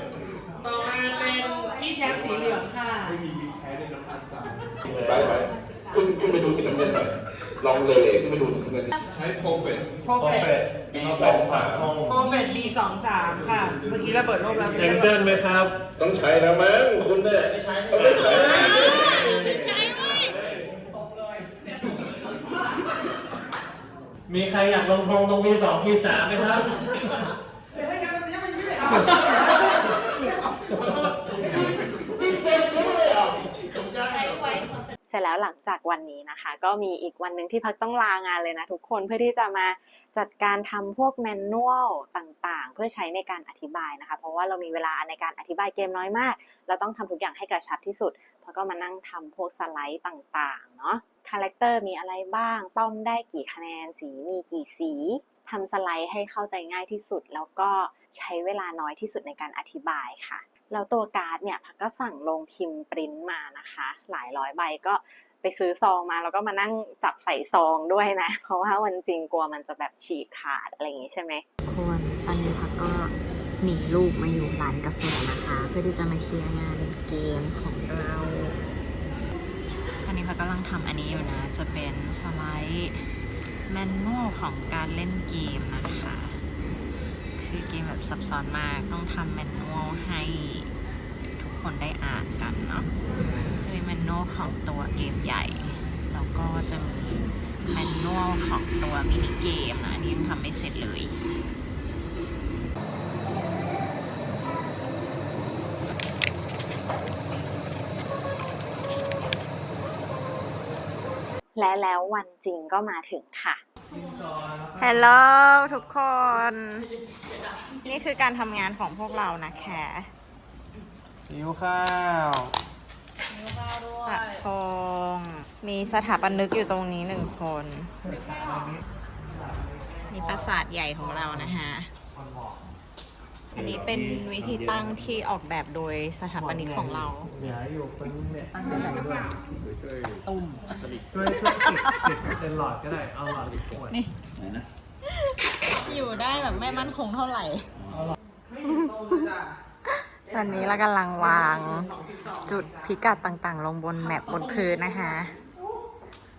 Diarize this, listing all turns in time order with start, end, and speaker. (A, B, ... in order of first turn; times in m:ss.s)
0:00.6-0:03.2 A
0:04.0-0:04.3 B
0:04.9-0:05.3 C
0:05.3-0:10.0 B
0:10.0-0:10.4 A
0:10.2-0:12.2 C
0:12.1-0:14.6 A
0:13.3-0:14.8 B
0:14.7-0:15.8 C
0:16.0-0:19.0 B
0:17.9-0:20.4 C
0:19.7-0:20.0 D
0:24.3-0:26.8 C
0:28.6-0:29.0 B
0:32.5-0:33.3 B
0:34.0-0:34.5 B
0:35.1-1:11.4 E
1:11.6-1:18.6 D
1:20.0-1:23.1 D
1:23.7-1:26.4 D
1:27.4-1:30.7 D
1:31.4-1:32.9 D
1:33.6-1:41.1 D
1:51.6-1:53.6 E
1:54.0-1:54.8 C
1:54.8-1:56.9 D
1:57.8-2:00.1 D
2:01.3-2:02.2 C
2:04.0-2:07.9 D
2:08.2-2:08.8 C
2:10.1-2:11.9 D
2:13.5-2:17.3 D
2:17.4-2:18.4 C
2:18.5-2:19.3 D
2:20.2-2:22.3 D
2:21.1-2:23.8 C
2:23.9-2:24.2 D
2:25.0-2:27.7 D
2:28.6-2:35.4 D